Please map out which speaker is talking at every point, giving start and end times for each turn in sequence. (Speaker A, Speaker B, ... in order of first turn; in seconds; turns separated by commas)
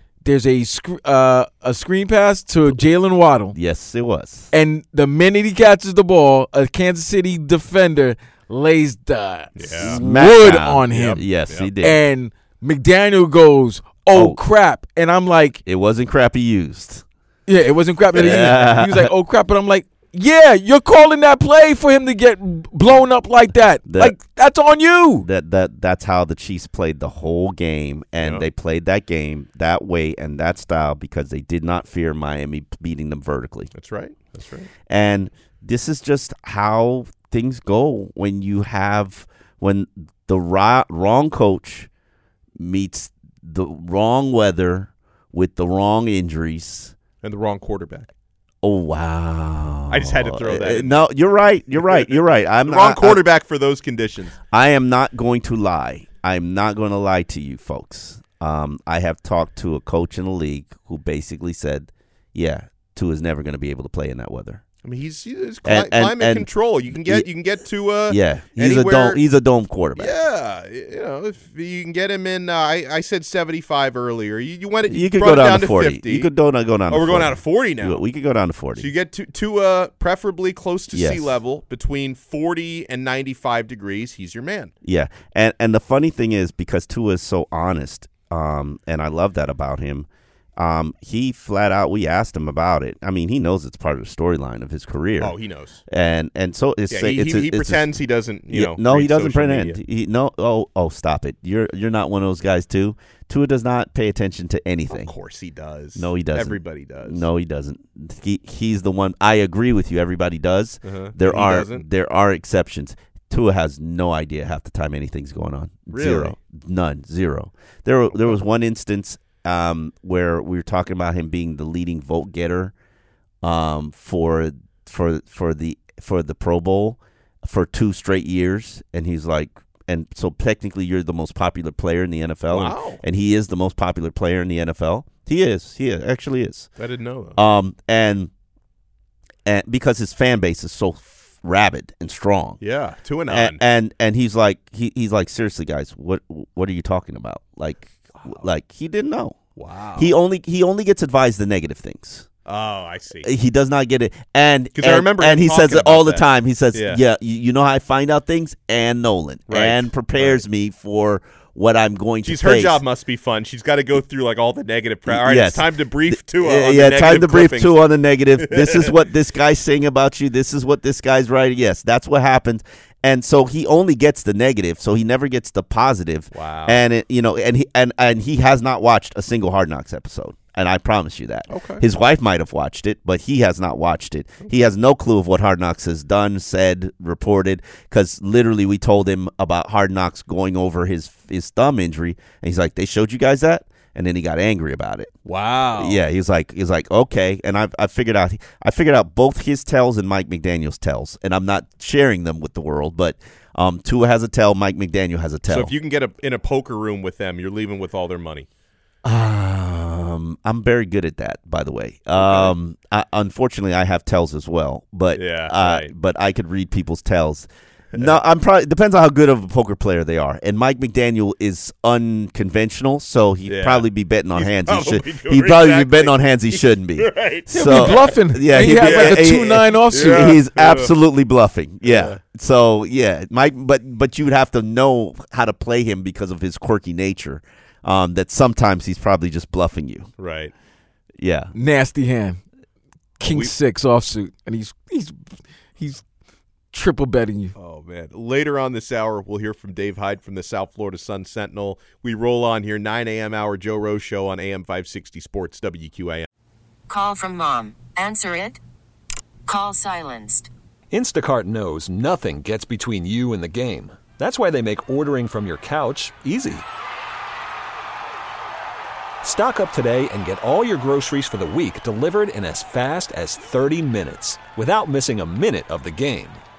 Speaker A: 0.2-3.6, Speaker B: 3.5-4.5, Speaker A: 4.5-15.6, Speaker C: 9.6-10.0, Speaker B: 9.8-12.0, Speaker C: 10.9-11.8, Speaker B: 14.1-14.4, Speaker B: 15.7-17.1, Speaker A: 17.5-25.3, Speaker B: 18.1-19.1, Speaker B: 23.9-24.2, Speaker B: 25.2-33.7, Speaker C: 28.2-28.5, Speaker C: 33.7-34.7, Speaker B: 34.9-41.9, Speaker B: 42.6-47.0, Speaker C: 47.2-48.1, Speaker B: 48.6-53.2, Speaker C: 49.9-51.1, Speaker C: 51.8-54.4, Speaker B: 54.5-64.6, Speaker C: 64.8-69.2, Speaker B: 65.7-67.3, Speaker B: 68.1-70.2, Speaker C: 70.0-76.3, Speaker B: 74.9-78.9, Speaker C: 76.9-78.0, Speaker C: 78.8-84.7, Speaker B: 80.9-81.4, Speaker B: 84.8-95.4, Speaker C: 95.2-95.8, Speaker B: 95.9-97.9, Speaker C: 96.9-99.8, Speaker B: 98.5-105.2, Speaker C: 104.9-107.3, Speaker B: 106.0-122.7, Speaker C: 110.8-111.9, Speaker C: 115.9-116.4, Speaker C: 118.1-118.4, Speaker B: 123.4-136.7, Speaker C: 132.5-133.0, Speaker C: 136.8-137.4, Speaker B: 137.4-138.3, Speaker B: 139.5-142.6, Speaker C: 142.6-143.6, Speaker B: 143.3-149.4, Speaker C: 148.2-148.5, Speaker C: 149.6-150.1, Speaker B: 150.0-152.3, Speaker C: 152.5-153.3, Speaker B: 153.2-162.8, Speaker C: 154.7-157.0, Speaker C: 159.5-160.4, Speaker C: 162.2-168.9, Speaker B: 165.1-195.2, Speaker C: 176.3-176.8, Speaker C: 181.5-181.8, Speaker C: 195.3-196.0, Speaker B: 195.8-205.7, Speaker C: 205.5-208.5, Speaker B: 209.0-240.1, Speaker C: 212.2-212.6, Speaker C: 215.1-215.9, Speaker C: 217.9-218.2, Speaker C: 223.5-228.2, Speaker A: 227.5-230.3, Speaker C: 228.7-230.9, Speaker C: 231.8-232.2, Speaker C: 240.2-240.5, Speaker B: 241.2-241.5, Speaker A: 241.5-242.4, Speaker A: 243.2-245.2, Speaker C: 243.3-243.5, Speaker A: 245.8-246.0, Speaker A: 246.7-247.5, Speaker C: 247.6-256.3, Speaker D: 256.9-258.6, Speaker D: 259.5-260.5, Speaker E: 260.9-266.6, Speaker E: 269.2-276.4